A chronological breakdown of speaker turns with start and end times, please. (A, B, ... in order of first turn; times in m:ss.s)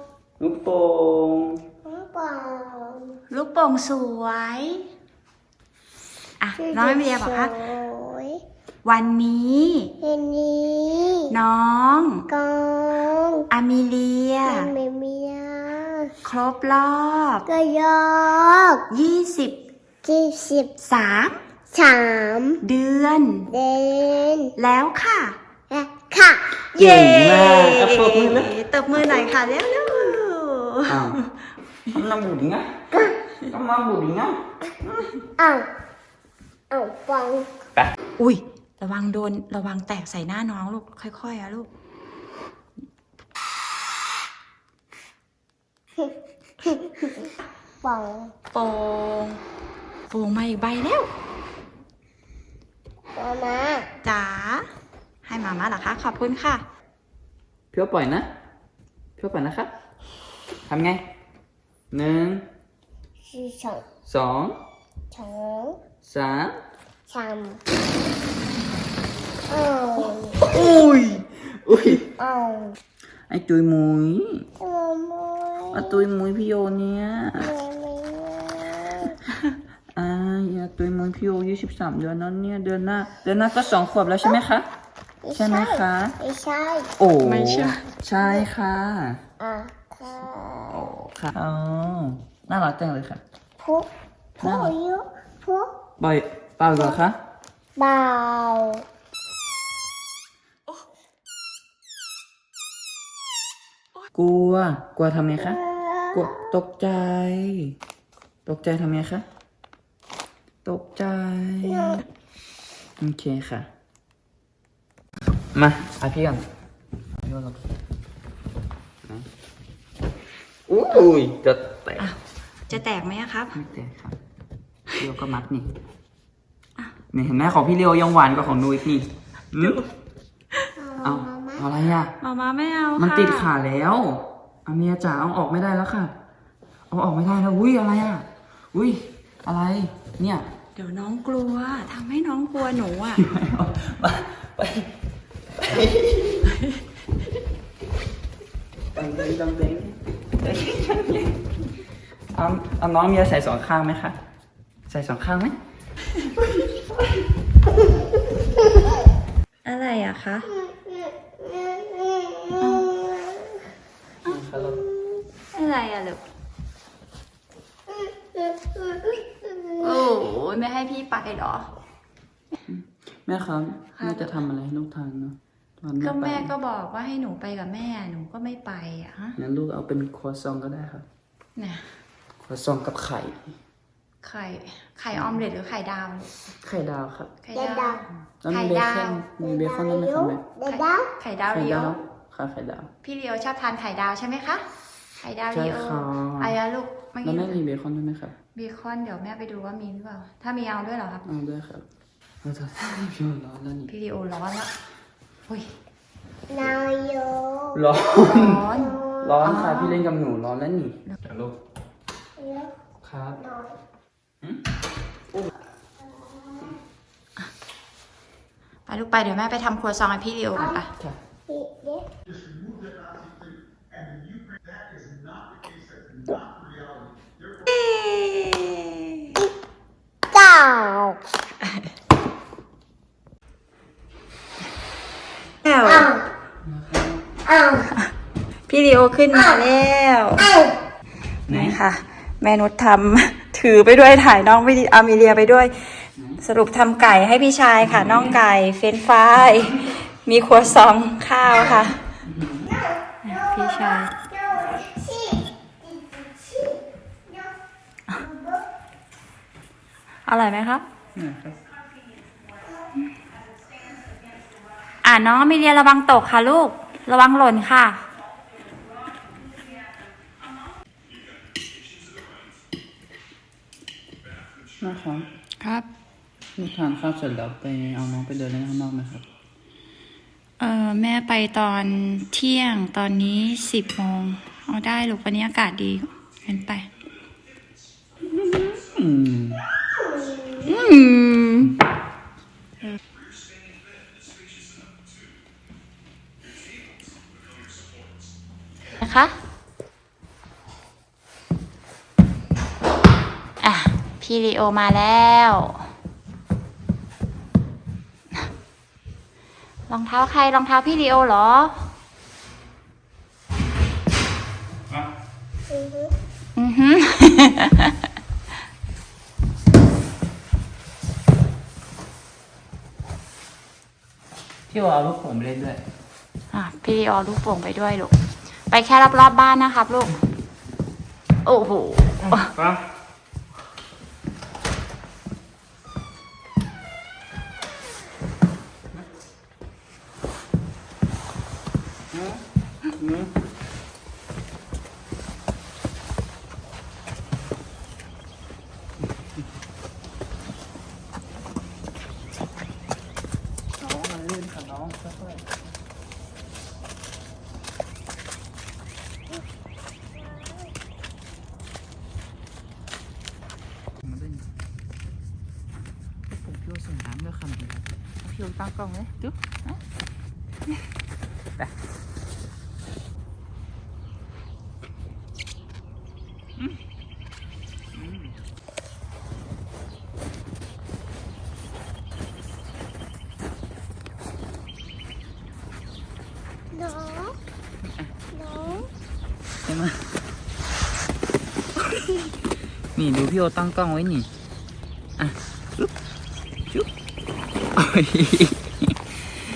0:00.4-0:01.6 A
0:01.8-0:03.1 B
0:03.3-0:04.8 C
0:06.4-0:07.6 C
0:06.6-0:08.4 B
0:08.8-0:09.9 C
0:10.0-0:11.3 B
0:11.3-0:12.3 C
0:12.3-0:13.5 B
0:13.5-0:14.7 C
0:14.4-0:16.1 B
0:16.2-0:17.4 C
0:17.5-0:18.8 B
0:18.9-0:19.6 C
0:20.0-0:20.7 B
0:20.8-0:21.4 C
0:21.7-0:22.6 B
0:22.6-0:23.5 C
0:23.5-0:24.5 B
0:24.6-0:25.4 C
0:25.7-0:26.5 B
0:26.7-0:28.5 A
0:26.7-0:31.3 C
0:30.9-0:31.2 A
0:31.9-0:32.7 A
0:33.4-0:35.1 A
0:35.4-0:35.7 B
0:36.7-0:37.5 B
0:38.2-0:41.7 C
0:46.6-0:47.1 B
0:47.8-0:48.3 B
0:48.5-0:49.4 C
0:50.1-0:51.1 C
0:53.1-0:53.9 B
0:54.0-0:54.7 C
0:55.2-0:56.6 C
0:57.7-0:58.3 A
0:59.2-0:59.7 A
1:00.7-1:01.0 A
1:01.9-1:02.4 A
1:03.2-1:03.8 B
1:04.0-1:04.6 A
1:05.1-1:05.8 B
1:06.0-1:06.5 A
1:07.1-1:07.6 B
1:09.5-1:10.6 B
1:10.4-1:12.1 A
1:12.2-1:12.8 B
1:13.3-1:14.4 A
1:14.6-1:16.0 B
1:15.7-1:17.5 A
1:17.4-1:19.2 B
1:19.9-1:24.7 A
1:25.2-1:26.9 B
1:25.3-1:26.2 A
1:27.0-1:29.2 A
1:27.2-1:27.8 C
1:29.4-1:30.8 B
1:30.7-1:33.2 A
1:33.6-1:35.7 B
1:34.4-1:34.7 A
1:36.0-1:37.2 A
1:37.8-1:38.8 B
1:44.1-1:45.6 A
1:45.4-1:46.4 B
1:46.1-1:47.8 A
1:48.4-1:49.2 A
1:50.6-1:52.0 A
1:51.7-1:52.0 B
1:53.0-1:53.7 A
1:55.5-1:56.4 A
1:57.2-1:57.6 A
2:00.7-2:02.1 A
2:02.7-2:03.6 C
2:03.5-2:04.2 A
2:05.0-2:05.7 A
2:07.1-2:09.8 A
2:09.6-2:09.9 C
2:10.8-2:11.6 B
2:11.0-2:12.1 A
2:12.2-2:13.5 C
2:13.0-2:16.1 A
2:16.9-2:20.4 A
2:20.8-2:23.2 C
2:23.1-2:24.9 A
2:25.6-2:26.4 A
2:28.9-2:31.4 A
2:32.3-2:34.2 A
2:34.9-2:35.6 A
2:39.6-2:40.5 C
2:40.6-2:43.3 B
2:42.6-2:42.9 C
2:44.2-2:44.8 A
2:45.5-2:46.2 C
2:48.4-2:49.7 B
2:49.8-2:51.7 C
2:52.7-2:56.5 A
2:53.9-2:54.4 C
2:56.0-2:59.4 C
2:59.4-3:01.0 A
3:01.6-3:01.9 C
3:02.4-3:03.5 A
3:04.2-3:06.4 C
3:05.1-3:05.4 A
3:06.6-3:07.3 A
3:07.4-3:09.2 C
3:07.5-3:08.0 B
3:08.4-3:10.4 A
3:09.4-3:11.1 B
3:10.6-3:12.0 C
3:11.5-3:12.9 A
3:13.0-3:14.6 C
3:15.2-3:17.6 C
3:15.5-3:16.5 A
3:17.2-3:18.3 A
3:18.5-3:21.2 C
3:21.2-3:21.8 A
3:22.4-3:23.9 A
3:23.9-3:24.7 C
3:26.5-3:27.8 B
3:27.7-3:31.6 A
3:28.2-3:30.0 C
3:28.7-3:29.4 B
3:32.4-3:32.7 B
3:33.0-3:33.4 A
3:33.4-3:33.8 B
3:36.1-3:36.7 B
3:38.8-3:40.9 C
3:41.5-3:42.1 B
3:47.6-3:49.4 C
3:50.3-3:51.2 B
3:51.6-3:51.9 C
3:55.6-3:56.1 C
3:55.8-3:56.2 B
3:56.6-3:57.2 A
3:57.4-3:57.8 B
3:58.7-4:00.5 C
4:00.4-4:00.7 B
4:01.5-4:01.8 A
4:01.5-4:12.0 C
4:07.8-4:08.3 A
4:12.2-4:12.6 A
4:12.7-4:17.5 B
4:13.2-4:14.1 C
4:18.1-4:18.6 B
4:20.2-4:20.8 C
4:21.1-4:21.6 A
4:25.0-4:28.0 C
4:34.8-4:35.3 A
4:35.6-4:35.9 C
4:36.6-4:39.2 A
4:40.6-4:46.9 C
4:48.2-4:49.7 A
4:50.2-4:50.6 B
4:50.6-4:51.8 C
4:59.0-4:59.3 C
5:03.6-5:05.9 C
5:09.9-5:11.8 C
5:15.7-5:16.1 B
5:16.6-5:18.0 C
5:24.7-5:25.8 A
5:26.5-5:28.1 C
5:28.7-5:30.1 C
5:31.4-5:32.5 C
5:32.2-5:32.8 A
5:42.1-5:43.3 A
5:53.8-5:55.5 A
6:04.0-6:04.5 A
6:06.3-6:09.4 A
6:17.9-6:18.3 A
6:26.7-6:27.4 B
6:27.8-6:28.1 A
6:28.3-6:28.9 B
6:29.6-6:30.1 A
6:31.9-6:32.2 A
6:32.9-6:34.3 A
6:35.2-6:35.9 A
6:37.7-6:39.1 A